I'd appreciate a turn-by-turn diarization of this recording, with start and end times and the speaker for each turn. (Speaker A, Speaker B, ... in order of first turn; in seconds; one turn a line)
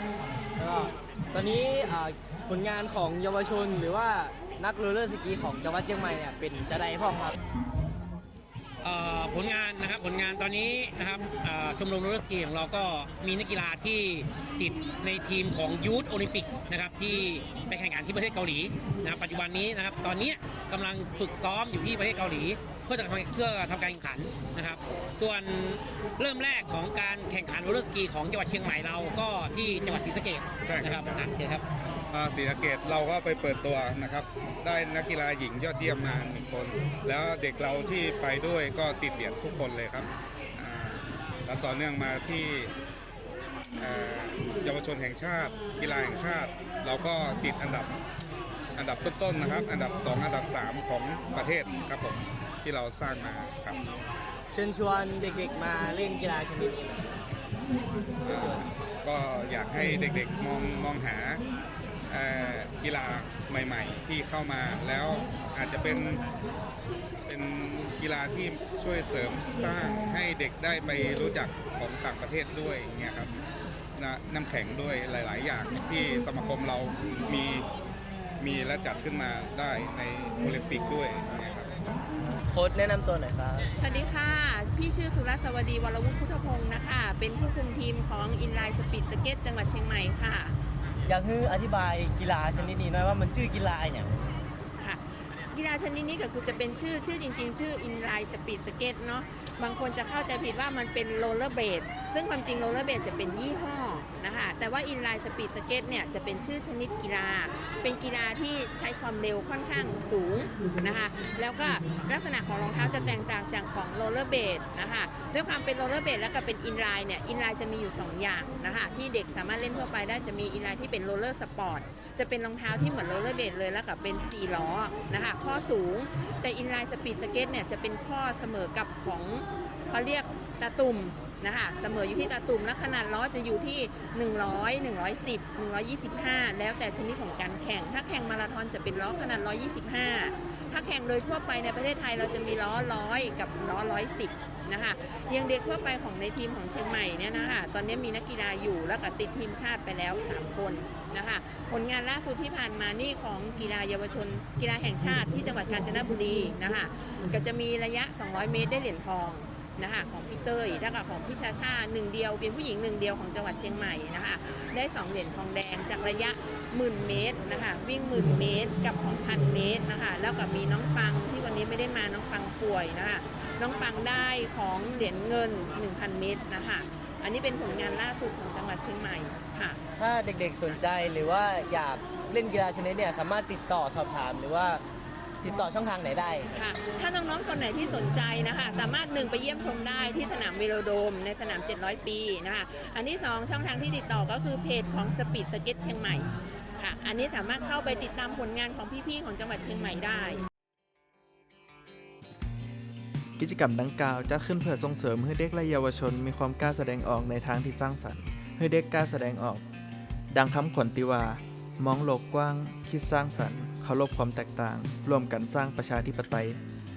Speaker A: 0.6-7.3
Speaker B: 8.8-31.6
Speaker C: 30.6-31.2
Speaker C: 32.1-42.7
Speaker C: 43.8-47.9
Speaker C: 48.8-53.8
Speaker A: 54.5-57.1
Speaker C: 58.2-61.4
Speaker A: 58.3-58.6
Speaker C: 62.1-66.2
Speaker C: 67.3-73.4
Speaker C: 74.0-77.7
Speaker C: 78.4-81.7
Speaker A: 82.2-83.7
Speaker D: 83.8-90.6
Speaker A: 91.0-94.3
Speaker D: 94.8-179.8
Speaker A: 180.0-184.8
Speaker A: 185.4-186.6
Speaker D: 186.6-200.4
Speaker E: 203.4-209.7
Speaker E: 210.3-216.6